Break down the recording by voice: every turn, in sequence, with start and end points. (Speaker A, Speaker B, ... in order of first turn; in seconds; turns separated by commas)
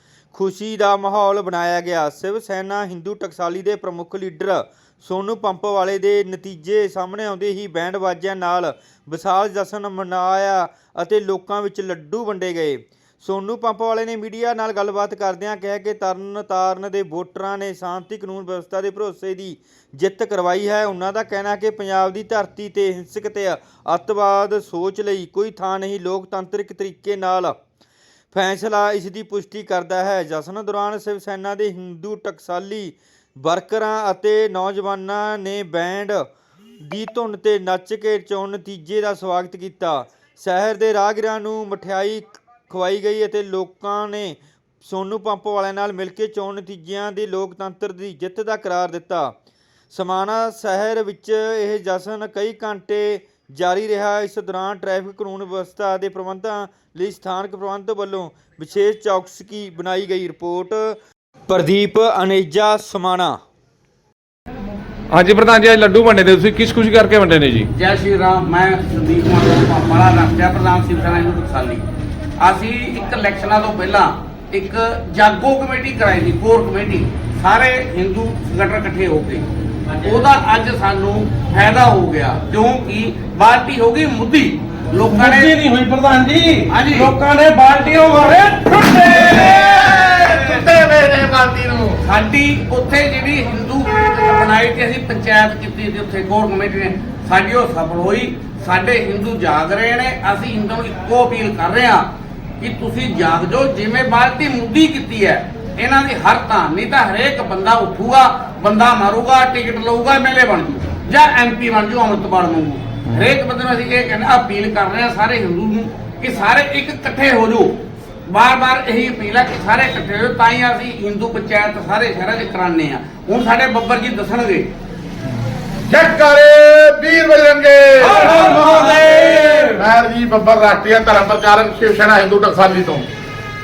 Speaker A: 0.3-27.6, Speaker A: 28.3-36.3, Speaker A: 36.9-49.4, Speaker A: 49.9-61.0, Speaker A: 61.5-63.4, Speaker B: 65.1-67.7, Speaker C: 67.7-71.9, Speaker C: 72.4-79.5, Speaker C: 80.0-85.5, Speaker D: 85.1-89.9, Speaker C: 86.7-87.1, Speaker E: 89.6-92.0, Speaker C: 90.2-90.6, Speaker C: 92.0-102.1, Speaker C: 102.6-117.8, Speaker C: 118.3-124.7, Speaker E: 125.9-128.5, Speaker D: 128.0-129.8, Speaker C: 128.1-129.6, Speaker E: 129.8-133.1